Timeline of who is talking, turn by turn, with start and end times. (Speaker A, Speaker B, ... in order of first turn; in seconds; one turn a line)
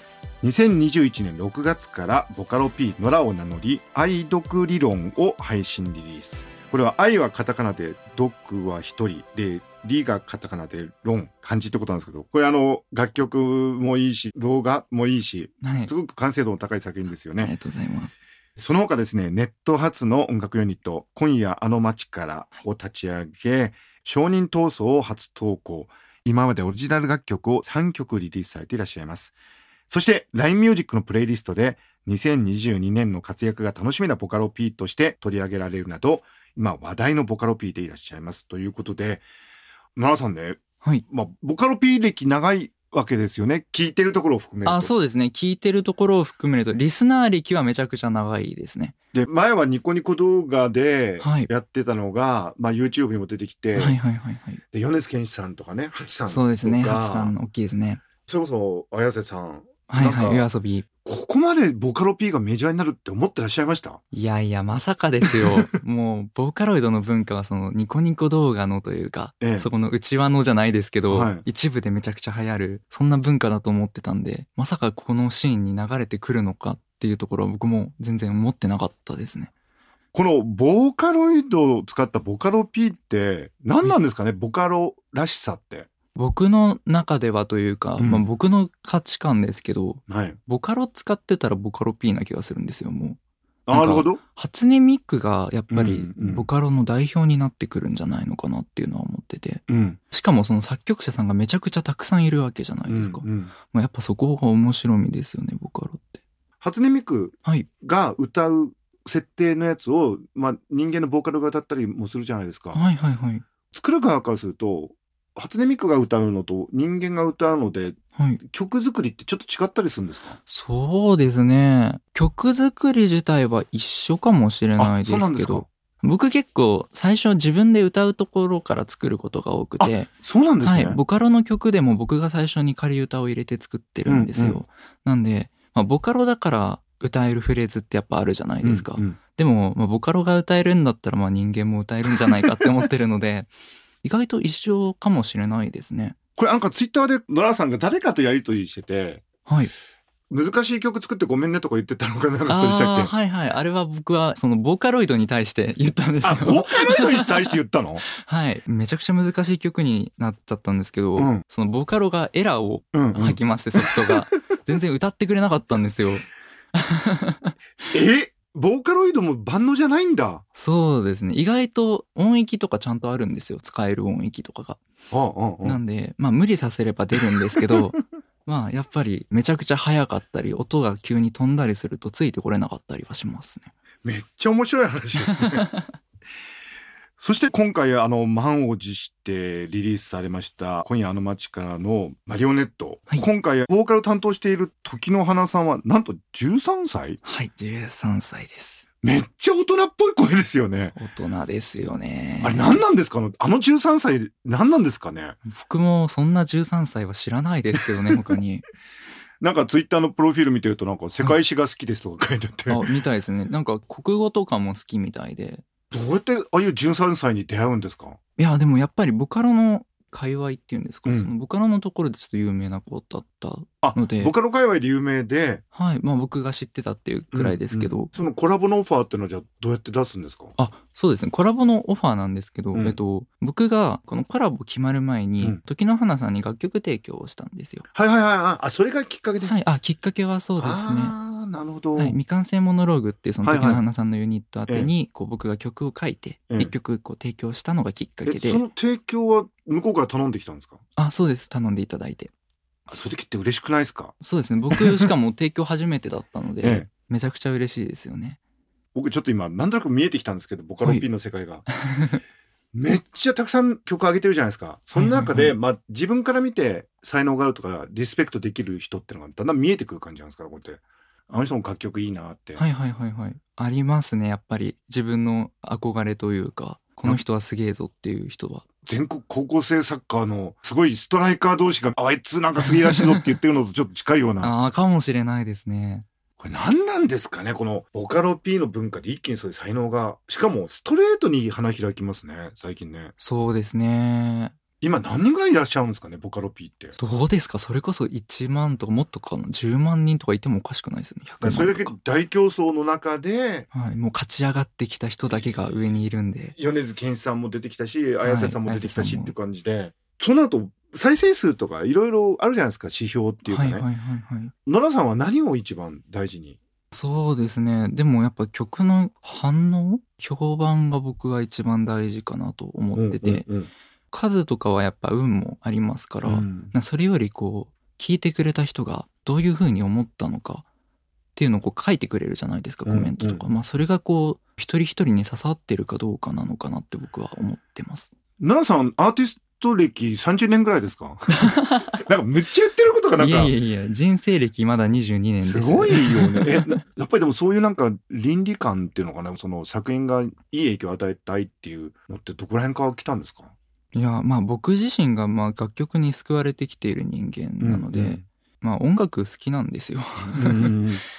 Speaker A: 0.4-17.5
Speaker B: 15.6-15.9
Speaker B: 17.4-18.2
Speaker A: 18.6-29.4
Speaker A: 29.9-39.2
Speaker A: 40.0-44.9
Speaker B: 44.6-49.0
Speaker A: 49.1-54.0
Speaker B: 51.2-51.5
Speaker B: 53.8-54.6
Speaker A: 54.7-57.4
Speaker B: 56.3-58.0
Speaker A: 58.3-60.5
Speaker B: 59.9-60.9
Speaker A: 61.0-64.0
Speaker B: 64.1-79.5
Speaker A: 65.2-65.8
Speaker A: 69.4-69.7
Speaker A: 71.1-71.5
Speaker A: 80.1-85.9
Speaker B: 86.2-93.2
Speaker A: 88.0-88.3
Speaker A: 90.1-90.4
Speaker A: 93.7-94.2
Speaker B: 93.7-106.2
Speaker A: 95.7-96.5
Speaker A: 99.7-100.0
Speaker A: 102.9-103.5
Speaker A: 106.6-112.8
Speaker B: 107.4-107.7
Speaker B: 112.7-113.5
Speaker A: 113.7-120.4
Speaker B: 118.2-118.4
Speaker B: 120.5-130.1
Speaker A: 124.8-125.7
Speaker A: 129.8-131.0
Speaker B: 130.6-143.5
Speaker A: 134.1-134.6
Speaker A: 138.6-139.2
Speaker B: 144.0-146.2
Speaker A: 146.4-149.2
Speaker B: 149.5-149.7
Speaker A: 150.3-153.1
Speaker B: 152.5-157.6
Speaker A: 156.2-158.0
Speaker B: 158.1-167.6
Speaker A: 161.2-161.4
Speaker A: 162.9-164.2
Speaker A: 167.9-170.4
Speaker B: 170.6-174.8
Speaker A: 175.1-175.8
Speaker B: 175.6-183.7
Speaker A: 184.0-185.7
Speaker B: 185.2-185.9
Speaker A: 187.2-197.2
Speaker B: 197.2-198.8
Speaker A: 199.0-200.9
Speaker B: 200.9-202.8
Speaker A: 202.4-205.4
Speaker B: 205.4-208.7
Speaker A: 209.4-212.9
Speaker B: 212.7-215.7
Speaker A: 215.9-218.2
Speaker B: 218.4-224.3
Speaker A: 221.1-221.3
Speaker A: 223.8-225.6
Speaker B: 225.7-228.1
Speaker A: 227.3-230.6
Speaker B: 230.6-237.8
Speaker A: 237.9-239.6
Speaker B: 239.4-241.2
Speaker A: 240.6-242.2
Speaker B: 241.9-248.6
Speaker A: 243.4-243.8
Speaker A: 248.3-250.8
Speaker B: 251.0-252.3
Speaker A: 252.9-254.1
Speaker B: 254.2-258.4
Speaker A: 254.7-255.1
Speaker A: 256.6-256.9
Speaker A: 258.9-261.7
Speaker B: 261.7-262.2
Speaker A: 262.7-272.6
Speaker B: 264.9-265.6
Speaker B: 272.6-278.6
Speaker A: 278.9-284.6
Speaker B: 282.6-283.2
Speaker B: 284.4-286.1
Speaker A: 286.4-293.1
Speaker B: 293.2-294.6
Speaker A: 294.8-297.0
Speaker B: 297.0-301.9
Speaker A: 301.4-303.7
Speaker B: 303.7-306.6
Speaker A: 305.3-306.0
Speaker A: 306.6-313.9
Speaker B: 308.2-309.4
Speaker B: 313.5-314.5
Speaker A: 314.7-316.6
Speaker B: 316.9-323.5
Speaker A: 323.0-323.7
Speaker B: 324.1-330.6
Speaker A: 326.2-326.7
Speaker B: 331.4-338.1
Speaker A: 332.9-333.4
Speaker A: 338.4-343.5
Speaker B: 341.4-342.0
Speaker B: 343.2-346.8
Speaker A: 345.4-353.6
Speaker B: 353.9-360.8
Speaker A: 357.6-358.2
Speaker A: 360.2-361.0